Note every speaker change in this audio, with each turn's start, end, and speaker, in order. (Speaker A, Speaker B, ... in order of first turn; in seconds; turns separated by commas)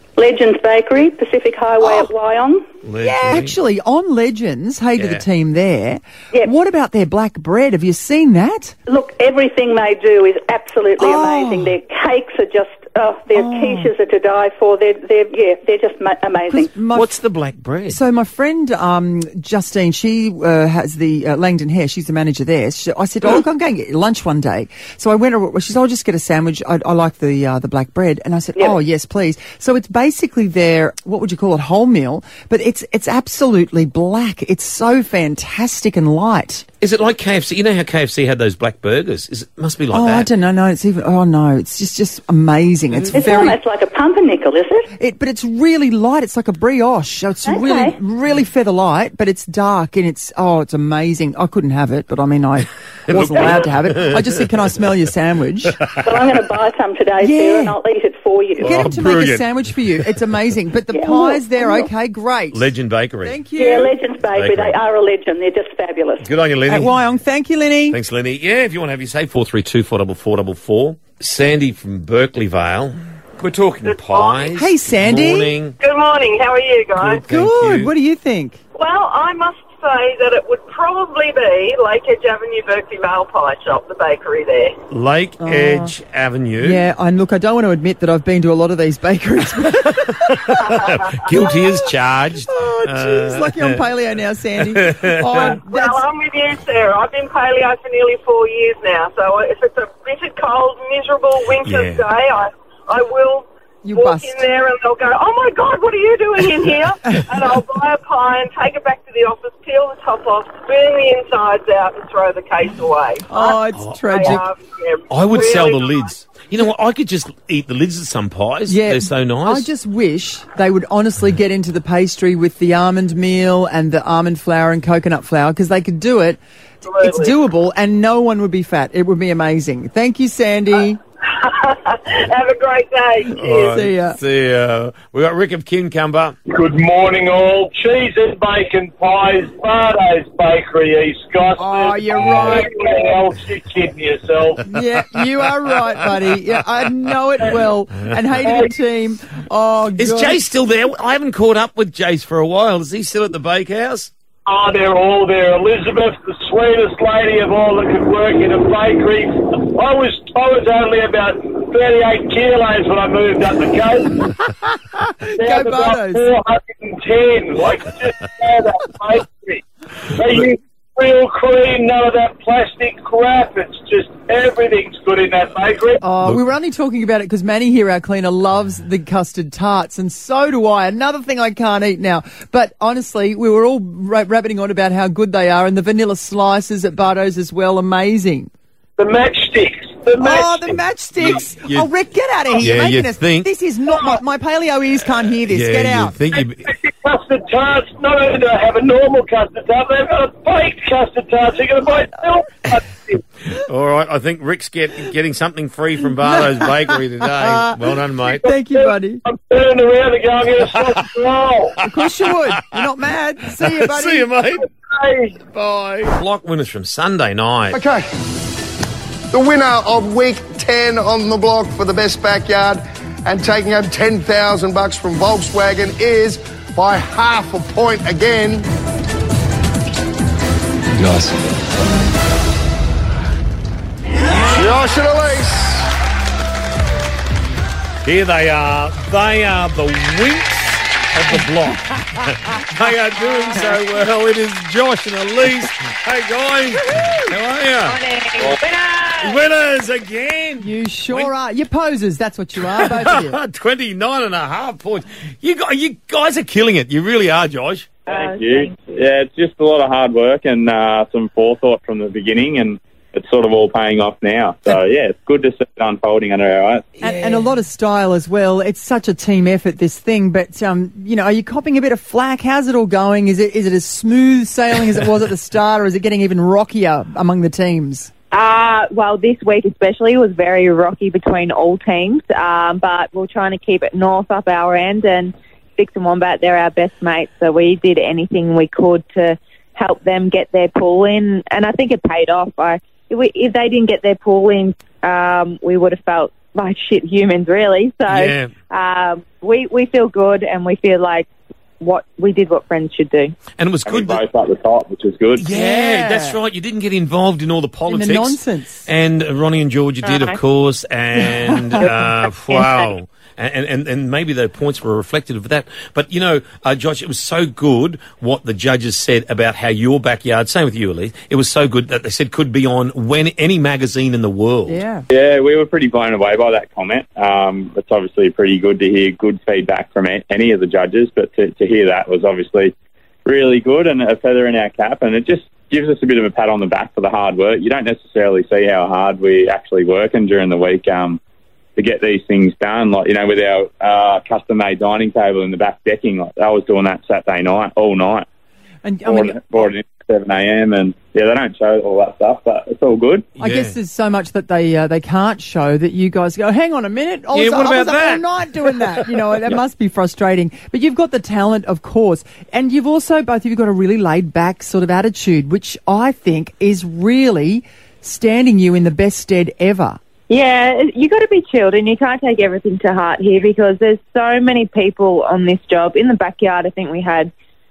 Speaker A: 0.2-2.7, Speaker B: 2.8-3.6, Speaker C: 3.0-8.8, Speaker B: 5.0-5.2, Speaker A: 8.9-16.7, Speaker C: 11.0-11.7, Speaker C: 13.3-13.9, Speaker C: 16.5-17.1, Speaker B: 16.9-18.0, Speaker C: 17.9-36.7, Speaker B: 36.8-40.3, Speaker C: 39.9-43.6, Speaker A: 43.1-44.9, Speaker C: 45.0-55.8, Speaker A: 47.5-48.0, Speaker B: 53.1-54.7, Speaker B: 55.8-56.2, Speaker A: 56.0-58.9, Speaker C: 57.2-57.8, Speaker B: 58.6-59.5, Speaker C: 58.6-62.7, Speaker A: 60.9-61.9, Speaker B: 62.5-63.4, Speaker C: 63.2-64.0, Speaker A: 63.6-66.2, Speaker B: 64.3-64.8, Speaker B: 66.2-67.0, Speaker C: 66.7-68.0, Speaker B: 67.9-75.8, Speaker D: 73.8-74.6, Speaker C: 74.5-75.5, Speaker D: 75.8-77.2, Speaker B: 77.0-77.9, Speaker C: 77.2-78.6, Speaker D: 78.8-84.8, Speaker B: 84.9-86.8, Speaker C: 85.4-85.9, Speaker C: 86.6-91.6, Speaker B: 90.3-93.8, Speaker C: 92.5-96.0, Speaker B: 94.6-95.6, Speaker D: 95.5-116.2, Speaker B: 101.6-102.1, Speaker C: 103.8-104.4, Speaker C: 113.3-114.5, Speaker B: 113.8-114.4, Speaker B: 115.1-119.7, Speaker C: 118.7-131.0, Speaker D: 126.8-127.4, Speaker D: 131.3-133.8, Speaker B: 133.3-136.4, Speaker C: 133.4-134.2, Speaker E: 136.5-144.6, Speaker C: 141.6-142.7, Speaker D: 142.5-143.0, Speaker C: 144.7-150.4, Speaker B: 150.0-154.1, Speaker E: 154.5-164.2, Speaker C: 165.2-166.3, Speaker E: 165.4-169.6, Speaker E: 170.2-176.0, Speaker C: 176.0-188.5, Speaker E: 189.0-190.5, Speaker C: 190.2-196.2, Speaker B: 190.7-191.9, Speaker B: 192.6-193.5, Speaker B: 195.5-196.7, Speaker E: 196.7-203.2, Speaker B: 203.5-208.4, Speaker C: 206.2-207.7, Speaker E: 208.3-211.8, Speaker C: 208.4-209.2, Speaker C: 211.8-214.3, Speaker B: 213.6-214.7, Speaker E: 214.9-215.4, Speaker B: 215.5-217.8, Speaker F: 217.7-218.1, Speaker F: 219.3-228.7, Speaker F: 234.3-235.9, Speaker B: 238.0-248.0, Speaker G: 247.9-249.3, Speaker B: 249.0-251.3, Speaker C: 250.6-253.4, Speaker B: 252.6-257.9, Speaker G: 258.1-258.9, Speaker H: 258.1-266.9, Speaker C: 267.0-278.1, Speaker B: 267.1-267.4, Speaker G: 278.3-301.3, Speaker B: 298.1-298.5, Speaker G: 301.8-303.4, Speaker B: 303.6-304.2, Speaker H: 303.9-305.5, Speaker B: 305.4-324.8, Speaker C: 305.5-306.4, Speaker C: 307.9-308.9, Speaker G: 310.0-310.4, Speaker C: 311.2-311.8, Speaker C: 324.7-325.1, Speaker H: 325.1-332.7, Speaker H: 333.3-341.2, Speaker H: 341.8-348.3, Speaker C: 348.8-349.7, Speaker H: 349.1-353.3, Speaker C: 353.4-370.0, Speaker B: 353.4-353.7, Speaker B: 357.3-359.1, Speaker G: 370.3-377.3